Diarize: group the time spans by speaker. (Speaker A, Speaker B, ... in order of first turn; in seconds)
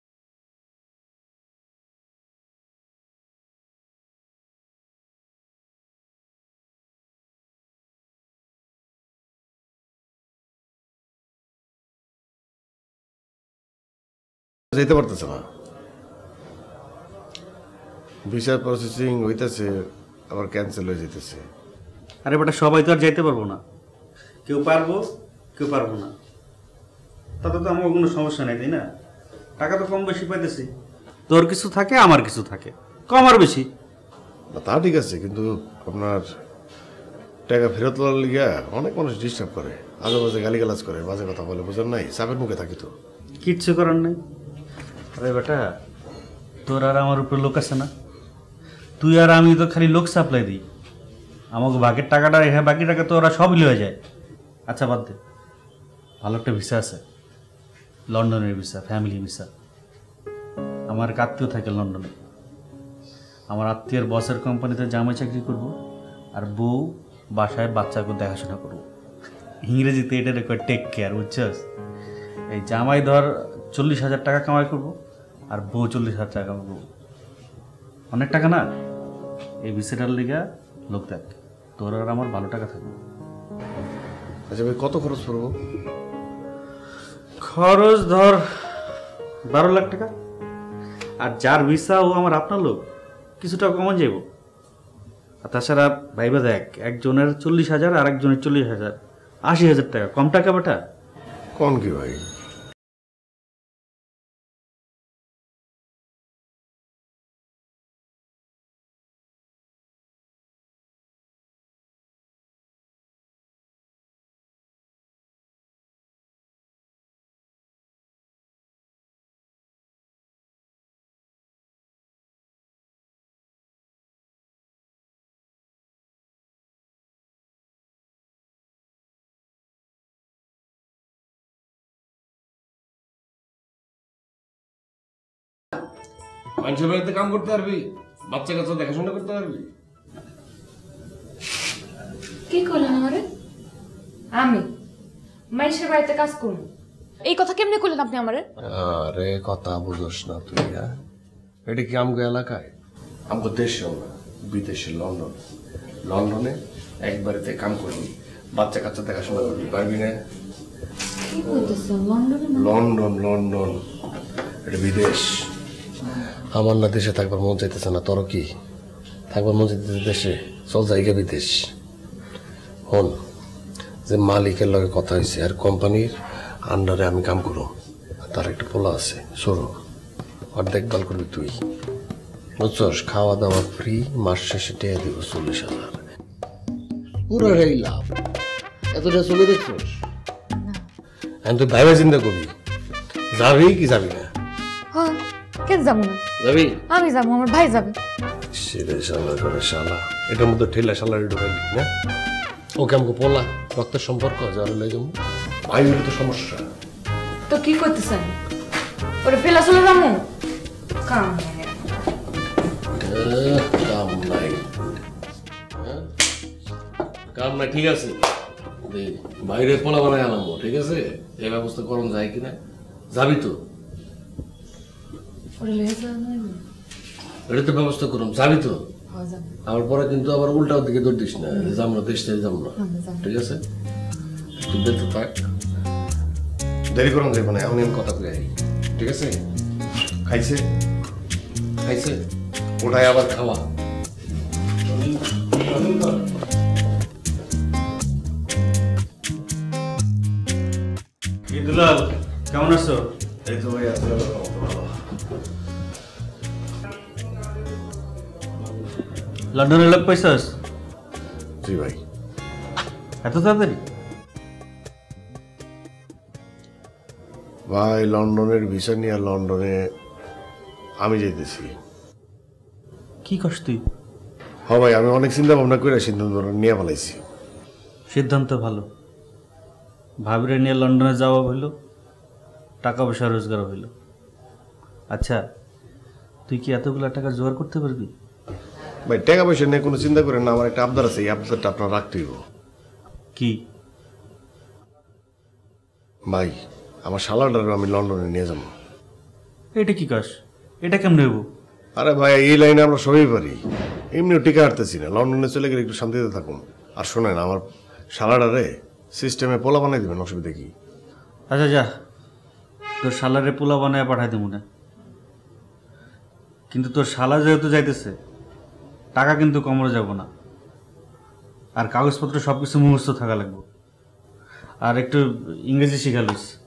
Speaker A: 14.7-15.5, 18.3-21.5, 34.5-36.3, 37.5-43.0, 84.5-85.5, 101.6-102.2, 136.6-139.7, 148.6-150.9, 151.7-152.7, 153.3-155.4, 156.1-160.2, 162.5-163.8, 164.7-165.4, 166.6-168.5, 169.3-171.7, 172.9-173.2, 174.1-179.8, 180.5-181.6, 182.6-186.0, 187.3-188.2, 188.9-190.0, 191.4-192.5, 193.3-194.3, 196.4-196.8, 198.5-201.9, 202.8-205.2, 205.7-206.6, 212.9-214.7, 215.8-216.1, 217.3-218.3, 218.8-222.6, 223.1-223.6, 227.5-228.8, 229.7-233.6, 234.6-235.4, 236.9-239.4, 240.3-240.6, 241.8-242.2, 242.8-243.7, 253.5-254.9, 261.6-262.0, 267.7-269.8, 271.0-271.7, 274.7-277.2, 289.1-292.4, 296.3-298.7, 302.0-303.6, 304.1-310.7
Speaker B: 22.3-23.6, 24.5-25.0, 25.6-26.1, 27.4-28.8, 29.6-30.7, 31.3-33.7, 43.4-44.2, 45.2-45.7, 46.7-47.9, 49.0-50.6, 51.5-54.0, 54.7-55.2, 56.2-57.0, 58.1-59.5, 60.9-62.1, 63.5-65.7, 66.4-68.8, 69.6-71.6, 72.5-74.9, 75.5-76.8, 78.1-78.6, 79.7-83.0, 87.4-88.8, 89.5-90.1, 91.2-92.8, 93.4-94.2, 95.4-99.0, 99.5-100.8, 244.9-246.2, 251.5-253.1, 259.5-260.6, 263.2-263.8, 273.3-273.8, 278.1-278.9, 280.3-281.7, 282.8-283.9, 285.1-285.4, 286.5-288.1, 299.8-301.4, 311.5-311.9, 313.0-314.6, 316.7-318.1, 319.2-320.3, 321.8-323.6, 324.9-326.5
Speaker C: 142.5-143.2, 144.4-144.7, 145.5-146.6, 147.3-148.4, 161.3-162.8, 194.9-196.2, 196.9-198.0, 207.5-208.3, 209.2-210.2, 211.1-211.8, 225.6-226.6, 229.1-229.6, 231.6-231.8, 232.8-233.3